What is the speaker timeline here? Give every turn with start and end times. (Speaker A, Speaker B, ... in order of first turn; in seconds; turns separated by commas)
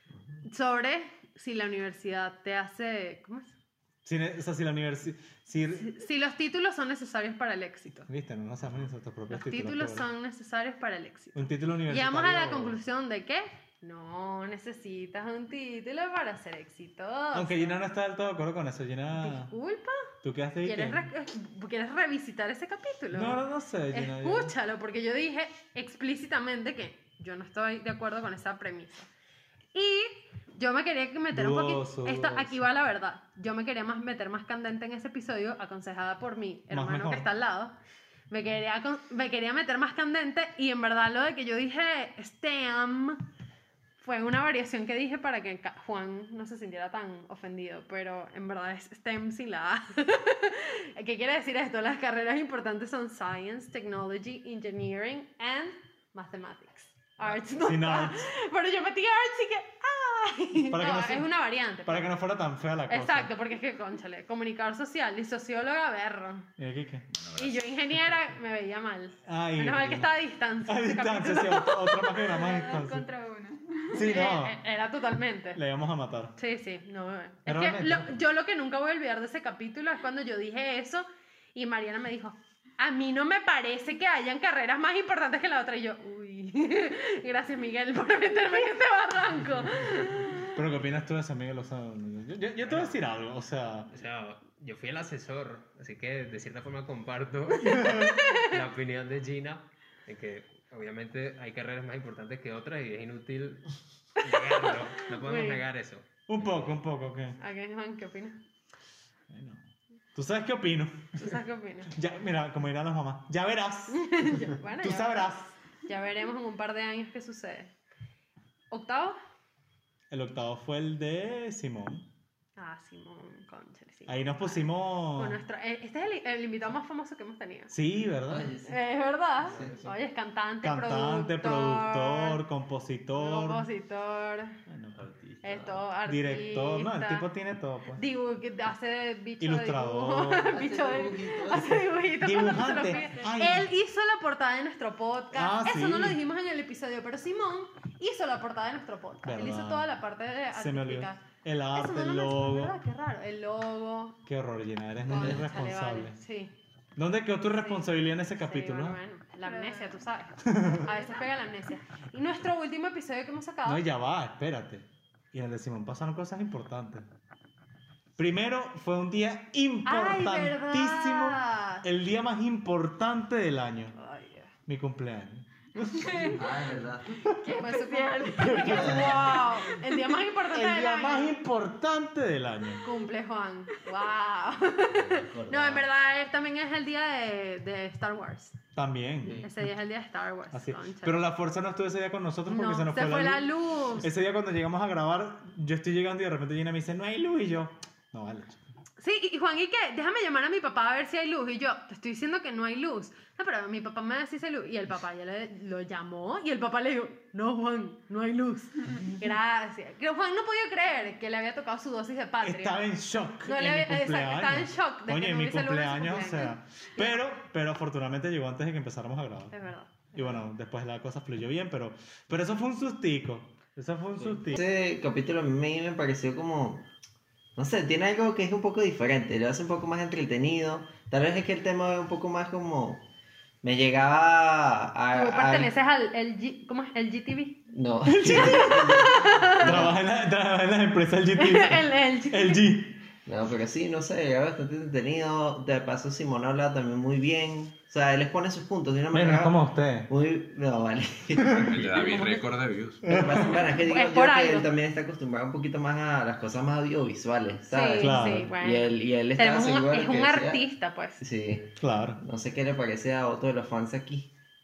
Speaker A: 0.5-3.5, Speaker B: 4.0-5.9, Speaker A: 5.8-8.1, Speaker B: 8.1-10.1, Speaker A: 9.3-17.8, Speaker B: 11.3-12.8, Speaker B: 17.3-19.5, Speaker A: 19.2-20.1, Speaker B: 20.2-21.1, Speaker A: 20.6-29.1, Speaker B: 23.1-24.5, Speaker A: 29.7-37.8, Speaker B: 31.3-32.7, Speaker B: 36.7-37.3, Speaker A: 38.3-43.2, Speaker A: 44.0-62.1, Speaker B: 57.6-58.3, Speaker B: 60.7-61.3, Speaker B: 61.9-63.3, Speaker A: 62.9-66.5, Speaker B: 66.6-67.1, Speaker C: 67.1-67.7, Speaker A: 67.3-72.5, Speaker B: 69.3-70.1, Speaker B: 70.7-73.1, Speaker D: 72.3-74.1, Speaker B: 73.9-74.6, Speaker A: 74.0-75.6, Speaker B: 75.5-76.3, Speaker A: 76.4-90.5, Speaker B: 77.5-78.2, Speaker B: 90.5-93.9, Speaker E: 92.6-93.0, Speaker E: 93.9-103.6, Speaker B: 97.6-98.2, Speaker A: 97.7-98.5, Speaker E: 104.2-106.8, Speaker A: 104.5-105.6, Speaker B: 106.3-107.4, Speaker A: 107.4-108.4, Speaker B: 109.3-111.3, Speaker A: 111.2-111.9, Speaker B: 111.9-114.2, Speaker A: 113.9-117.7, Speaker B: 114.8-115.5, Speaker A: 118.7-119.2, Speaker B: 120.1-122.1, Speaker A: 122.6-127.7, Speaker B: 124.1-125.4, Speaker B: 127.7-128.5, Speaker F: 128.3-128.8, Speaker A: 128.7-132.4, Speaker F: 129.4-130.0, Speaker B: 130.6-133.7, Speaker A: 133.2-134.6, Speaker B: 134.7-135.4, Speaker F: 135.4-135.8, Speaker A: 135.4-137.3, Speaker B: 136.1-138.0, Speaker A: 138.0-151.2, Speaker B: 139.4-140.5, Speaker F: 140.4-142.0, Speaker B: 142.2-143.7, Speaker B: 145.3-146.2, Speaker B: 149.2-149.9, Speaker B: 150.5-152.7, Speaker A: 151.7-154.2, Speaker B: 154.3-156.2, Speaker A: 155.1-156.5, Speaker F: 155.2-155.5, Speaker B: 157.0-159.0, Speaker A: 157.4-163.8, Speaker D: 159.4-160.1, Speaker B: 160.4-160.9, Speaker D: 160.8-161.3, Speaker B: 163.7-167.1, Speaker B: 168.2-173.9, Speaker A: 169.8-171.8, Speaker A: 173.9-174.5, Speaker B: 174.7-176.4, Speaker D: 175.9-176.4, Speaker F: 176.3-177.2, Speaker D: 177.3-179.8, Speaker A: 177.6-181.4, Speaker B: 178.4-179.2, Speaker F: 178.8-179.1, Speaker B: 180.5-182.8, Speaker A: 182.8-188.6, Speaker F: 184.9-185.8, Speaker B: 188.8-189.4, Speaker F: 189.2-189.5, Speaker A: 189.4-191.3, Speaker B: 190.5-198.6, Speaker A: 192.5-194.1, Speaker A: 199.0-212.8, Speaker B: 212.4-219.5, Speaker A: 213.4-217.2, Speaker A: 219.5-220.4, Speaker B: 220.1-224.6, Speaker F: 224.2-226.9, Speaker F: 227.6-233.0, Speaker F: 233.6-235.7, Speaker A: 235.1-237.6, Speaker F: 237.7-240.0, Speaker B: 238.1-239.0, Speaker A: 238.1-239.9, Speaker B: 239.6-243.0, Speaker A: 241.4-242.7, Speaker F: 243.3-249.6, Speaker B: 249.1-250.1, Speaker F: 250.1-252.0, Speaker B: 251.4-251.9, Speaker C: 251.4-253.2, Speaker B: 253.1-253.7, Speaker F: 253.1-260.6, Speaker A: 253.8-254.7, Speaker A: 257.7-261.2, Speaker B: 258.0-258.5, Speaker F: 261.2-264.3, Speaker B: 261.8-262.2